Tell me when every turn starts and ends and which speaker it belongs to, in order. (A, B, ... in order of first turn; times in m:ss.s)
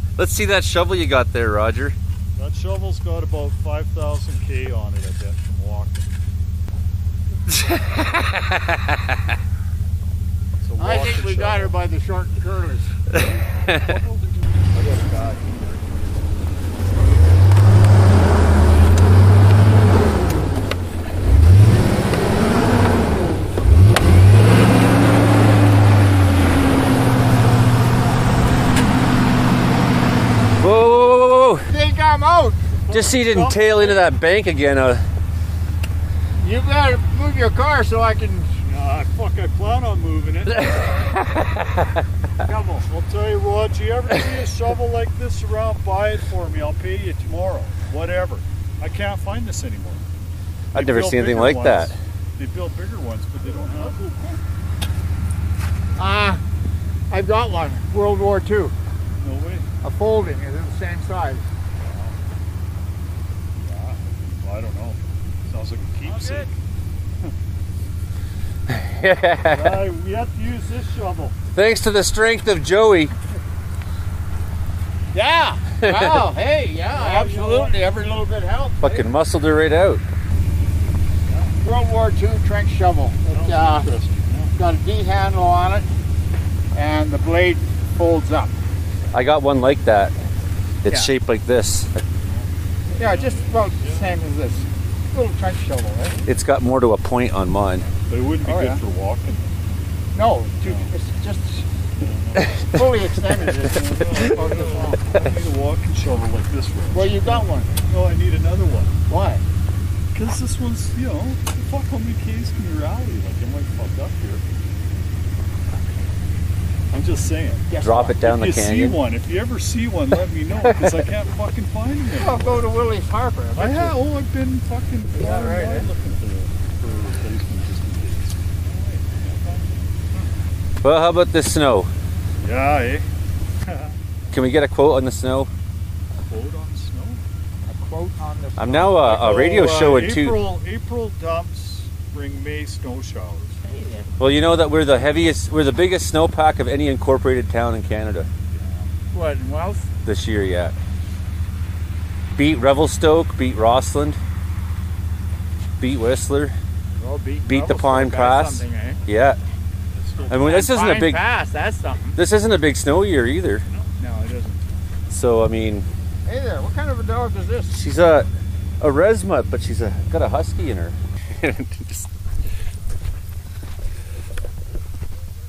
0:00.2-0:02.0 A
0:02.3-0:06.1 B
0:07.6-0:09.2 A
0:10.6-0:11.7 B
0:10.8-0:13.0 C
0:13.1-0:16.4 B
0:30.6-0:31.7 A
0:31.7-0:32.7 C
0:32.7-0:34.1 B
0:32.9-0:35.0 A
0:36.4-0:38.5 C
0:38.6-0:41.0 B
0:40.7-0:41.9 A
0:42.4-0:42.8 C
0:42.7-0:50.0 B
0:50.7-0:52.0 A
0:50.7-0:54.1 B
0:53.7-0:54.4 C
0:56.0-0:56.4 C
0:57.1-0:58.7 C
0:59.2-0:59.6 B
0:59.8-1:01.4 C
1:01.8-1:02.2 B
1:03.6-1:06.6 B
1:06.2-1:06.5 C
1:08.7-1:09.8 A
1:09.5-1:11.4 B
1:11.5-1:13.1 A
1:15.1-1:19.1 C
1:15.8-1:16.2 A
1:16.8-1:17.8 B
1:18.8-1:20.0 A
1:21.2-1:21.6 B
1:21.6-1:23.9 C
1:23.3-1:24.6 B
1:24.5-1:25.9 C
1:26.7-1:28.6 C
1:29.1-1:30.1 A
1:30.8-1:32.0 A
1:30.8-1:31.1 C
1:32.2-1:34.2 B
1:32.9-1:36.3 C
1:36.2-1:37.9 A
1:38.1-1:39.7 B
1:38.4-1:38.8 C
1:40.1-1:41.7 C
1:40.6-1:40.9 B
1:42.0-1:49.0 B
1:42.6-1:45.0 C
1:46.9-1:47.7 C
1:49.1-1:49.4 C
1:50.1-1:54.4 B
1:56.9-1:57.7 B
1:57.7-1:58.2 C
1:57.8-1:59.0 A
1:58.2-2:02.7 B
2:00.6-2:01.0 A
2:02.1-2:04.0 C
2:03.5-2:09.7 B
2:05.1-2:05.9 C
2:10.8-2:11.9 A
2:12.4-2:13.1 B
2:13.6-2:13.9 B
2:14.3-2:15.5 A
2:16.2-2:17.2 B
2:17.7-2:19.0 C
2:18.6-2:20.4 A
2:19.0-2:23.6 B
2:23.6-2:24.1 C
2:24.2-2:28.3 A
2:28.5-2:28.9 B
2:29.1-2:29.8 C
2:30.0-2:30.7 A
2:32.4-2:34.2 A
2:35.8-2:36.6 A
2:37.0-2:39.0 C
2:37.4-2:39.4 A
2:39.9-2:40.6 B
2:40.3-2:41.2 A
2:40.3-2:42.2 C
2:42.1-2:43.6 A
2:43.7-2:44.0 B
2:44.0-2:44.6 C
2:45.1-2:45.9 A
2:46.2-2:47.8 C
2:47.7-2:48.3 A
2:48.8-2:52.1 A